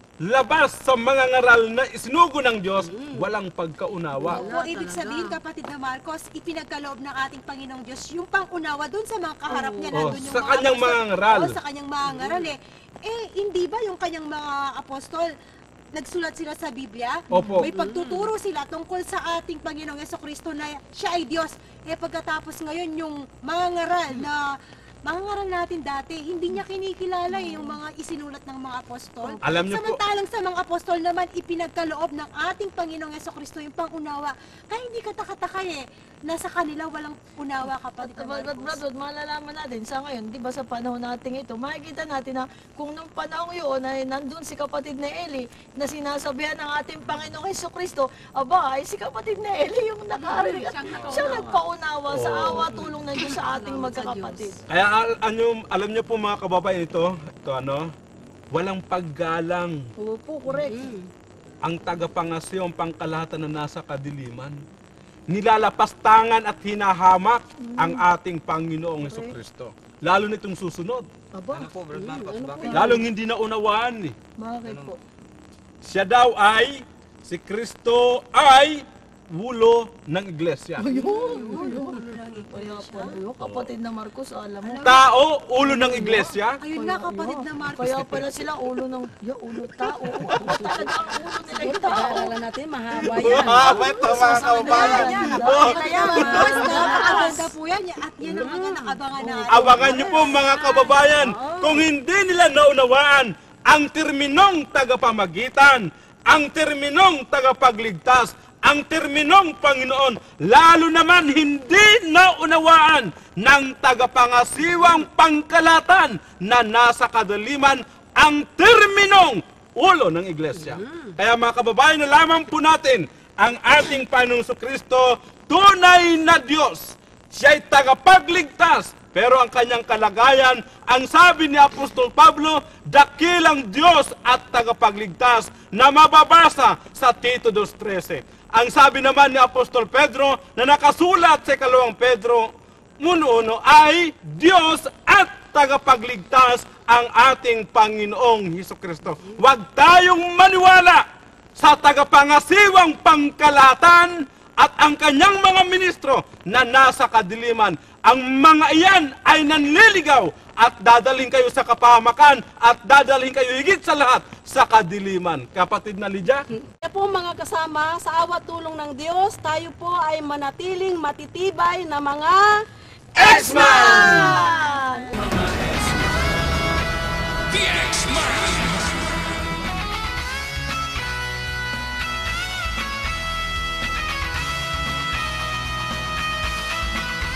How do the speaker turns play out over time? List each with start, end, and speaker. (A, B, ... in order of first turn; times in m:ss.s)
0:00.2-0:04.4 A
0:02.8-0:03.3 B
0:04.2-0:05.4 B
0:04.2-0:15.3 C
0:09.5-0:10.1 B
0:09.9-0:11.5 A
0:12.0-0:12.5 B
0:15.9-0:24.4 C
0:17.3-0:17.7 A
0:17.6-0:18.3 B
0:25.0-0:38.8 C
0:29.4-0:30.0 A
0:38.0-0:54.6 D
0:50.2-0:51.6 B
0:51.0-0:51.3 E
0:52.1-0:52.8 A
0:52.7-0:54.5 B
0:54.7-0:57.9 A
0:58.5-0:59.8 A
1:00.0-1:00.9 D
1:00.5-1:01.1 B
1:01.6-1:04.6 A
1:05.3-1:11.1 A
1:07.6-1:08.0 D
1:09.0-1:09.3 D
1:11.4-1:11.7 D
1:11.5-1:13.0 E
1:11.9-1:12.9 B
1:12.6-1:13.0 D
1:12.7-1:14.1 A
1:14.4-1:15.0 D
1:14.6-1:14.9 E
1:15.8-1:20.9 A
1:20.8-1:25.0 D
1:21.0-1:21.9 B
1:21.2-1:23.2 C
1:23.4-1:23.7 A
1:24.6-1:25.0 C
1:24.8-1:26.6 A
1:25.6-1:32.4 D
1:26.6-1:28.2 C
1:30.3-1:30.5 A
1:30.3-1:30.9 B
1:31.5-1:37.4 B
1:33.0-1:36.8 A
1:33.0-1:37.4 D
1:33.7-1:40.4 C
1:38.2-1:41.8 B
1:39.5-2:31.0 A
2:00.6-2:01.1 B
2:31.6-2:46.4 A
2:46.8-2:52.6 B
2:53.2-2:54.4 A
2:53.2-2:55.4 D
2:53.5-2:54.7 B